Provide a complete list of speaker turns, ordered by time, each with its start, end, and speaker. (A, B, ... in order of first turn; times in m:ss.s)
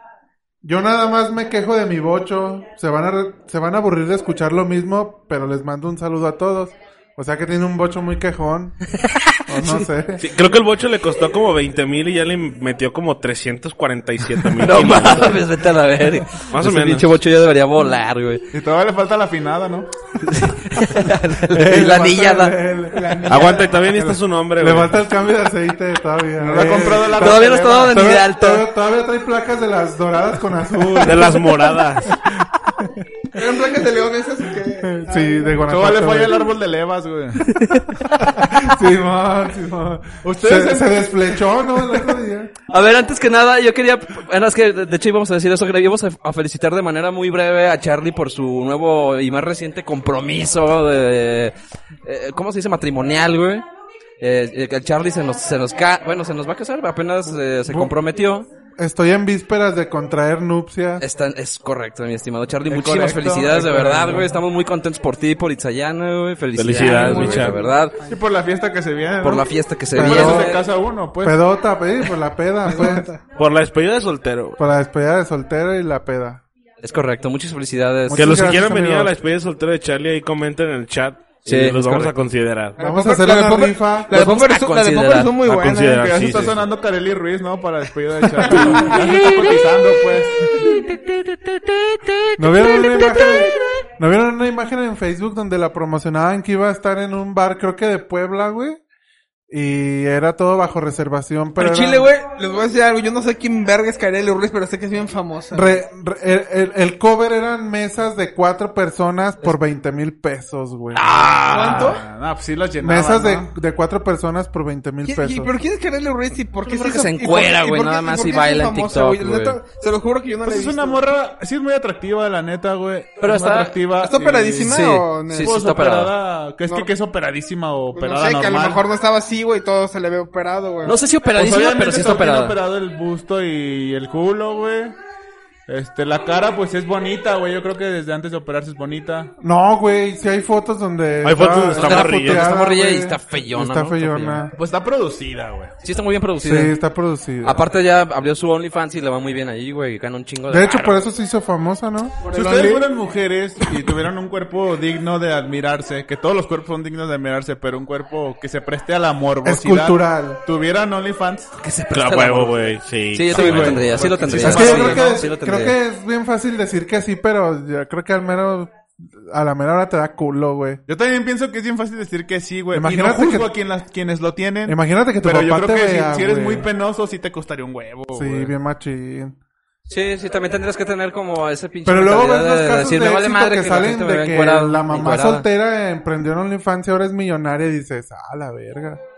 0:00.6-0:08.9 A
0:09.5-0:10.2 A
0:10.2-0:15.4 B
0:14.6-0:18.5 C
0:16.5-0:17.1 B
0:18.5-0:19.9 D
0:20.2-0:22.5 C
0:21.5-0:23.3 A
0:22.9-0:23.8 E
0:23.3-0:25.0 B
0:23.9-0:32.8 A
0:26.4-0:28.0 D
0:27.0-0:28.6 C
0:31.0-0:32.1 B
0:33.3-0:35.6 E
0:34.8-0:36.4 A
0:35.6-0:37.6 D
0:37.4-0:38.4 C
0:38.3-0:42.5 A
0:40.2-0:41.1 D
0:42.7-0:53.6 C
0:54.2-0:58.5 C
0:58.8-1:01.0 A
1:01.0-1:08.0 C
1:02.7-1:04.3 D
1:06.6-1:07.6 B
1:06.8-1:08.2 E
1:06.8-1:07.4 D
1:08.0-1:11.4 D
1:09.2-1:10.6 C
1:09.9-1:10.6 A
1:11.2-1:13.1 A
1:12.6-1:13.2 E
1:13.4-1:14.6 B
1:14.6-1:16.4 A
1:16.8-1:18.4 C
1:18.1-1:19.1 A
1:18.1-1:22.8 B
1:21.4-1:22.1 C
1:22.8-1:26.2 E
1:22.8-1:24.1 A
1:24.1-1:25.3 C
1:25.4-1:26.6 B
1:25.9-1:30.7 D
1:28.4-1:29.0 E
1:28.4-1:29.6 C
1:30.4-1:33.6 C
1:32.4-1:38.8 A
1:39.5-1:42.1 A
1:41.6-1:45.8 E
1:45.5-1:51.3 A
1:50.9-1:52.0 C
1:51.5-1:52.0 E
1:51.6-1:53.5 D
1:52.8-1:55.5 A
1:55.0-2:01.0 E
1:56.6-1:59.6 C
2:00.4-2:04.8 D
2:03.2-2:03.8 C
2:04.0-2:05.6 E
2:04.6-2:06.1 C
2:05.4-2:08.8 D
2:07.9-2:11.0 E
2:10.8-2:12.6 C
2:11.3-2:14.9 D
2:15.7-2:19.3 D
2:19.4-2:24.5 A
2:21.2-2:22.5 B
2:21.8-2:24.4 C
2:24.5-2:25.7 D
2:25.8-2:26.7 C
2:26.4-2:27.6 A
2:27.4-2:31.0 C
2:30.5-2:32.2 A
2:32.2-2:32.9 E
2:32.3-2:41.5 D
2:39.4-2:40.4 A
2:41.6-2:42.6 C
2:41.9-2:44.4 B
2:43.1-2:45.8 C
2:43.3-2:45.3 D
2:44.4-2:50.8 A
2:50.9-2:58.5 D
2:52.7-2:53.5 A
2:54.7-2:56.7 A
2:58.1-2:59.4 A
2:59.9-3:05.4 C
3:01.8-3:09.0 A